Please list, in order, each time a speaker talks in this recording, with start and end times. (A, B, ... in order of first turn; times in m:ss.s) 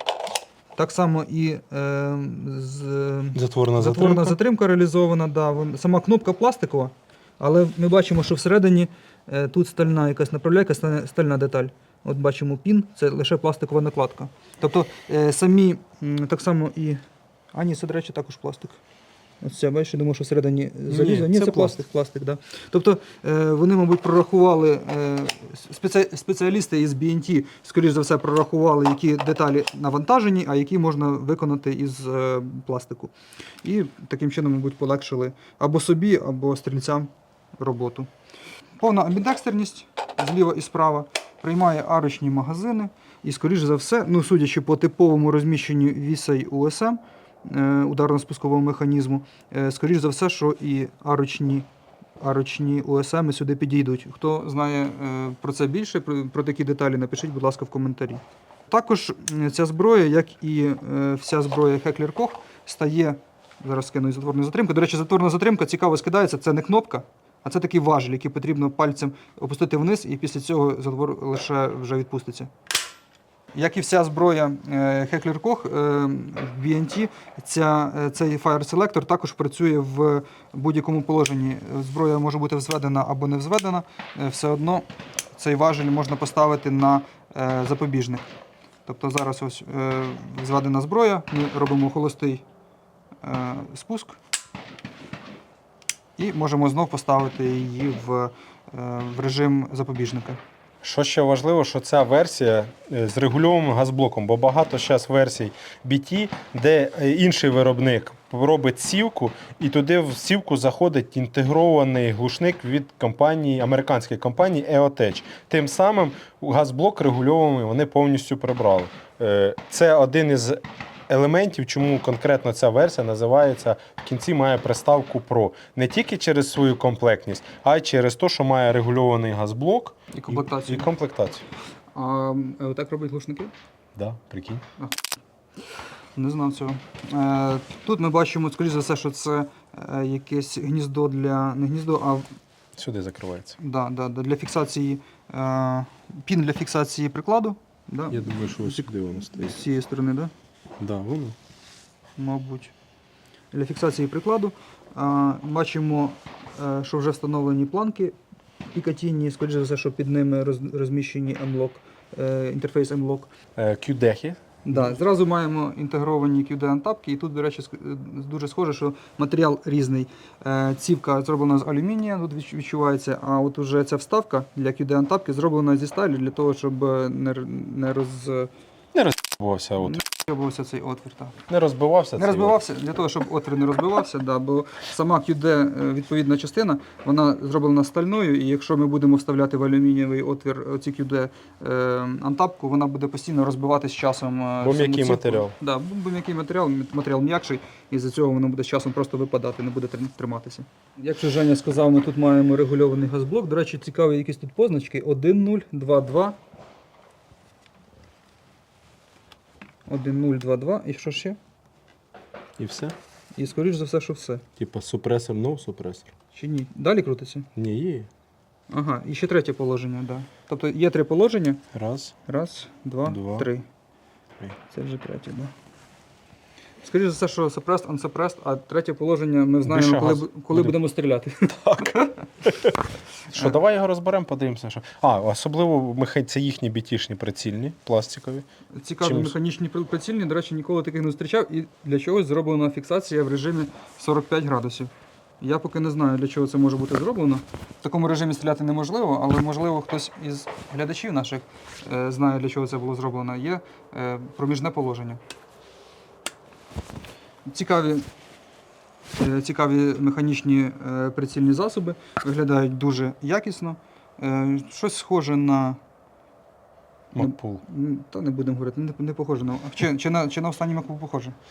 0:00.8-0:17.0 A
0:03.3-0:04.4 B
0:17.5-0:18.8 A
0:19.4-0:38.1 A
0:20.9-0:21.8 B
0:38.8-0:51.7 A
0:52.2-1:12.5 A
1:13.5-1:28.3 A
1:28.9-1:32.4 A
1:33.2-1:34.2 A
1:36.2-1:40.4 A
1:40.8-2:11.4 B
2:10.1-2:10.9 A
2:11.9-2:13.5 A
2:14.0-2:14.6 B
2:16.2-2:22.3 A
2:22.8-2:23.6 B
2:23.6-2:30.3 A
2:28.1-2:29.6 B
2:30.8-2:31.4 B
2:32.2-2:32.7 A
2:33.5-2:38.2 A
2:38.7-2:43.3 A
2:43.6-2:45.0 B
2:44.6-2:58.5 A
2:58.9-3:00.0 B
2:59.8-3:01.4 A
3:01.5-3:02.6 B
3:02.2-3:26.4 A
3:14.6-3:15.5 B
3:29.9-3:31.4 A
3:32.6-3:33.0 B
3:33.4-3:34.4 A
3:34.6-3:36.1 B
3:36.3-3:37.5 A
3:37.6-3:38.1 B
3:38.7-3:41.6 A
3:41.7-3:42.2 B
3:42.3-3:43.7 A
3:43.0-3:43.5 B
3:44.7-3:45.5 A
3:46.8-3:52.2 A
3:49.6-3:50.8 B
3:51.4-3:52.8 B
3:53.3-3:58.5 B
3:53.3-3:53.6 A
3:58.8-4:15.2 A
3:59.0-3:59.4 B
4:17.5-4:18.1 A
4:19.2-4:25.8 A
4:27.1-4:27.6 B
4:27.2-4:31.4 A